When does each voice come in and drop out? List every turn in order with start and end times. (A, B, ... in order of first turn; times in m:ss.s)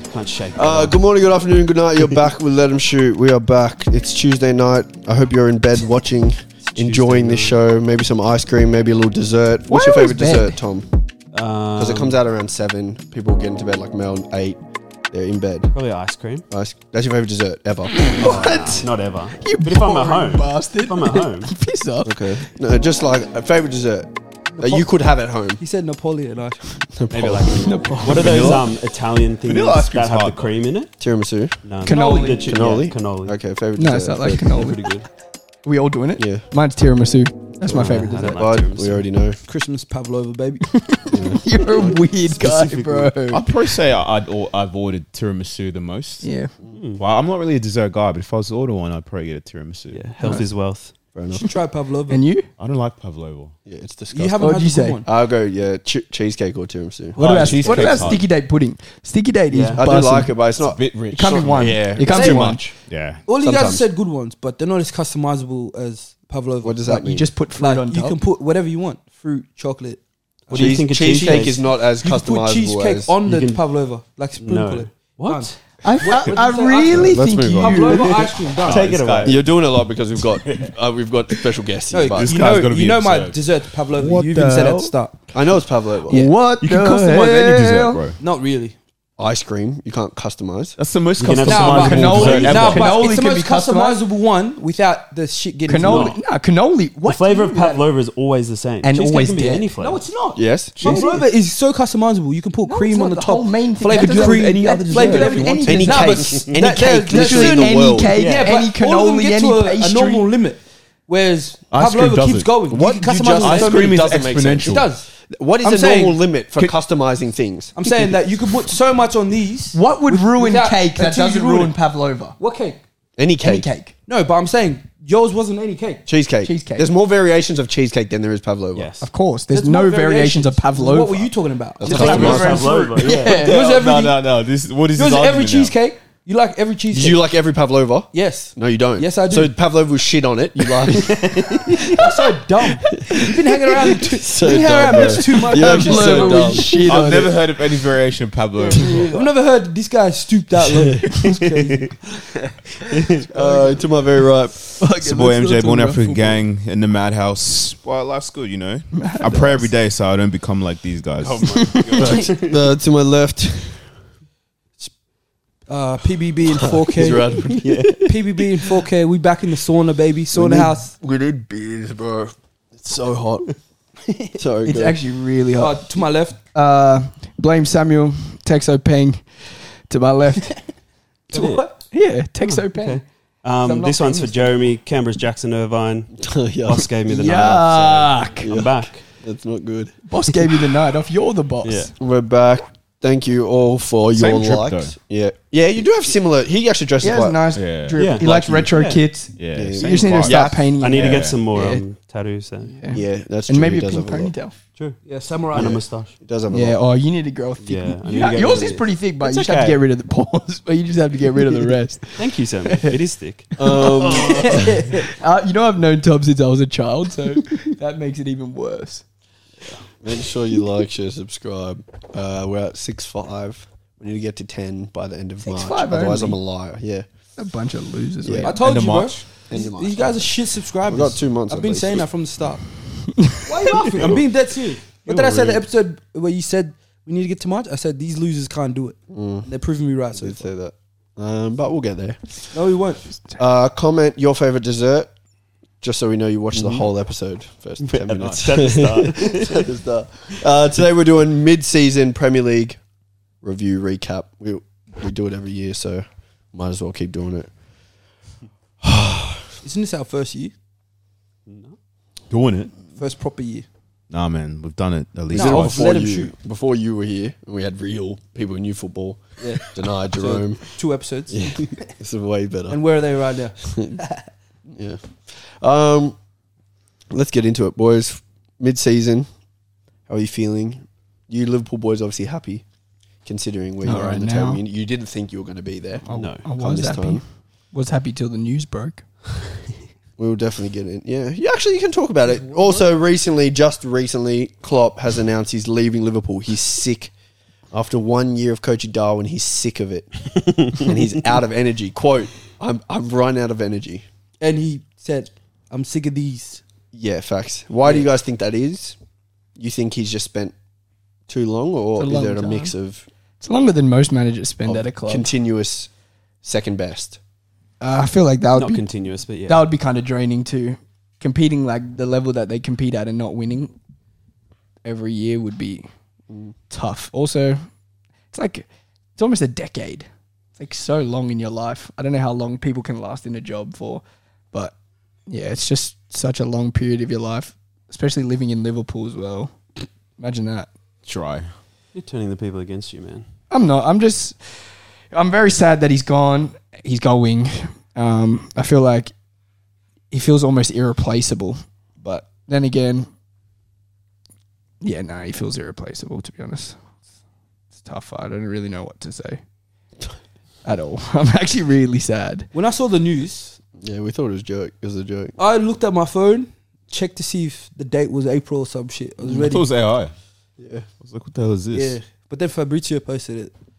0:00.1-0:01.0 A
0:00.5-0:10.9 B
0:06.7-0:07.6 A
0:09.7-0:10.6 C
0:11.3-0:12.2 A
0:11.8-0:15.7 B
0:15.7-0:16.4 A
0:16.5-0:18.5 B
0:18.1-0:21.5 A
0:18.1-0:22.4 C
0:22.0-0:25.6 B
0:24.5-0:24.8 D
0:25.6-0:26.8 D
0:26.9-0:28.7 B
0:27.1-0:30.9 A
0:27.6-0:28.6 C
0:29.4-0:30.5 E
0:31.0-0:31.6 B
0:31.6-0:33.4 A
0:31.8-0:32.4 C
0:31.8-0:32.3 D
0:32.4-0:34.5 B
0:33.8-0:34.8 C
0:34.4-0:35.0 A
0:35.6-0:38.4 C
0:36.2-0:36.4 B
0:37.7-0:39.1 A
0:37.8-0:39.4 B
0:39.4-0:40.7 D
0:40.7-0:43.5 C
0:41.1-0:42.0 B
0:42.3-0:42.7 D
0:42.5-0:43.0 B
0:43.3-0:46.3 E
0:46.2-0:46.5 C
0:46.7-0:47.0 A
0:47.0-0:50.1 E
0:49.9-0:50.9 A
0:50.2-0:50.5 C
0:51.1-0:51.5 B
0:51.4-0:52.2 D
0:52.1-0:52.5 C
0:52.6-0:53.5 E
0:53.6-0:58.1 B
0:54.1-0:55.0 D
0:54.4-0:55.0 C
0:57.2-0:58.3 E
0:57.2-1:00.4 C
0:59.5-0:59.8 A
0:59.8-1:03.9 B
1:00.6-1:01.9 E
1:01.1-1:02.6 C
1:02.1-1:02.6 D
1:02.9-1:03.2 E
1:03.2-1:06.8 D
1:06.6-1:07.3 B
1:06.8-1:08.2 C
1:07.6-1:18.9 D
1:10.5-1:11.6 A
1:10.5-1:13.1 B
1:13.2-1:13.6 A
1:14.4-1:15.6 A
1:15.8-1:18.2 C
1:16.9-1:18.1 B
1:18.4-1:19.4 A
1:18.6-1:19.4 E
1:19.2-1:22.4 B
1:20.4-1:20.7 E
1:21.9-1:25.2 D
1:22.1-1:24.9 E
1:25.3-1:26.3 B
1:26.1-1:28.0 C
1:26.6-1:28.2 E
1:28.2-1:28.8 D
1:29.2-1:30.8 B
1:30.8-1:33.1 E
1:31.2-1:32.8 A
1:31.5-1:36.2 D
1:31.7-1:34.0 C
1:35.7-1:37.8 C
1:35.8-1:36.2 A
1:37.0-1:40.0 A
1:38.8-1:39.7 C
1:39.8-1:55.1 D
1:40.3-1:41.0 B
1:40.8-1:41.1 E
1:40.8-1:41.2 C
1:42.6-1:50.3 C
1:45.0-1:48.2 B
1:48.2-1:48.5 A
1:51.7-1:54.9 E
1:52.7-1:57.7 B
1:55.6-1:56.2 D
1:57.8-2:01.8 D
1:59.7-2:02.4 C
2:02.4-2:02.8 D
2:03.2-2:03.7 B
2:03.4-2:03.9 C
2:04.0-2:06.0 D
2:06.1-2:08.9 B
2:06.4-2:06.9 C
2:08.7-2:09.0 A
2:09.0-2:11.3 C
2:09.5-2:14.2 D
2:11.8-2:12.7 B
2:11.8-2:13.6 C
2:11.8-2:13.4 A
2:12.0-2:12.5 E
2:13.2-2:15.8 E
2:14.9-2:17.2 D
2:16.9-2:21.2 B
2:18.1-2:19.5 D
2:21.7-2:27.2 D
2:24.0-2:26.8 B
2:24.9-2:27.4 C
2:26.8-2:29.3 E
2:28.8-2:31.9 D
2:32.9-2:33.2 A
2:33.3-2:34.6 B
2:34.8-2:36.4 C
2:35.0-2:42.1 E
2:39.0-2:39.7 C
2:41.2-2:42.6 A
2:42.0-2:43.8 B
2:45.7-2:50.9 D
2:46.8-2:48.1 B
2:47.6-2:47.9 A
2:50.3-2:53.5 B
2:54.3-2:55.0 B
2:54.6-2:55.8 C
2:55.6-2:56.4 D
2:56.5-3:00.6 C
3:01.3-3:01.8 D
3:01.3-3:01.8 A
3:01.9-3:03.0 C
3:02.5-3:09.0 A
3:03.6-3:04.7 C
3:06.2-3:06.9 B
3:07.1-3:08.5 C
3:08.4-3:09.9 B
3:10.0-3:11.9 C
3:11.6-3:11.9 A
3:12.0-3:17.5 B
3:14.1-3:15.0 E
3:17.0-3:21.8 C
3:17.5-3:18.7 E
3:18.0-3:19.0 A
3:19.4-3:21.4 E
3:19.5-3:20.8 B
3:19.8-3:20.2 A
3:20.8-3:22.8 A
3:22.7-3:24.5 C
3:22.9-3:24.3 B
3:24.8-3:26.1 A
3:25.1-3:25.8 D
3:25.5-3:26.8 B
3:26.5-3:32.9 C
3:27.6-3:29.8 A
3:32.2-3:34.6 A
3:33.6-3:34.7 B
3:33.6-3:39.0 C
3:34.5-3:34.8 D
3:40.0-3:47.0 B
3:45.4-3:46.4 C
3:47.4-3:48.6 C
3:48.2-3:48.6 B
3:48.4-3:52.7 D
3:48.6-3:49.3 E
3:49.5-3:52.0 B
3:53.3-4:00.5 D
3:53.9-3:54.3 A
3:55.0-3:55.6 A
3:59.1-3:59.5 B
4:00.1-4:02.5 B
4:02.5-4:03.1 D
4:03.4-4:05.1 B
4:05.8-4:12.8 B
4:06.5-4:06.8 A
4:07.8-4:09.7 A
4:08.2-4:08.7 E
4:13.4-4:17.5 B
4:18.8-4:19.5 B
4:19.6-4:20.5 D
4:21.5-4:21.8 A
4:22.3-4:22.7 E
4:22.9-4:23.6 D
4:24.1-4:25.9 E
4:25.3-4:30.7 B
4:25.3-4:26.3 D
4:29.4-4:31.9 D
4:31.3-4:32.8 B
4:32.7-4:34.2 D
4:33.6-4:34.0 B
4:34.7-4:36.2 B
4:37.1-4:39.3 B
4:40.1-4:42.6 B
4:43.2-4:47.2 B
4:43.8-4:44.6 C
4:46.0-4:49.0 C
4:46.1-4:46.4 A
4:50.2-4:57.1 B
4:52.2-4:52.8 D
4:57.7-5:04.0 B
5:04.4-5:06.6 D
5:06.9-5:09.0 B
5:09.6-5:10.5 B
5:11.3-5:13.0 B
5:12.0-5:12.7 C
5:13.4-5:15.3 C
5:14.6-5:15.9 B
5:16.4-5:17.2 B
5:17.8-5:18.8 C
5:18.5-5:19.6 A
5:19.4-5:23.7 C
5:24.8-5:25.9 C
5:26.7-5:27.6 C
5:28.3-5:28.6 C
5:29.2-5:34.7 C
5:35.3-5:39.5 C
5:40.2-5:40.7 C
5:41.0-5:41.5 E
5:41.9-5:43.2 A
5:43.5-5:49.1 C
5:50.1-5:53.1 C
5:54.8-5:56.8 C
5:57.8-5:59.4 C
6:00.6-6:02.5 C
6:02.5-6:03.6 D
6:03.8-6:05.3 B
6:05.4-6:09.7 D
6:09.2-6:10.1 E
6:10.6-6:10.9 B
6:11.0-6:12.0 E
6:11.7-6:13.5 D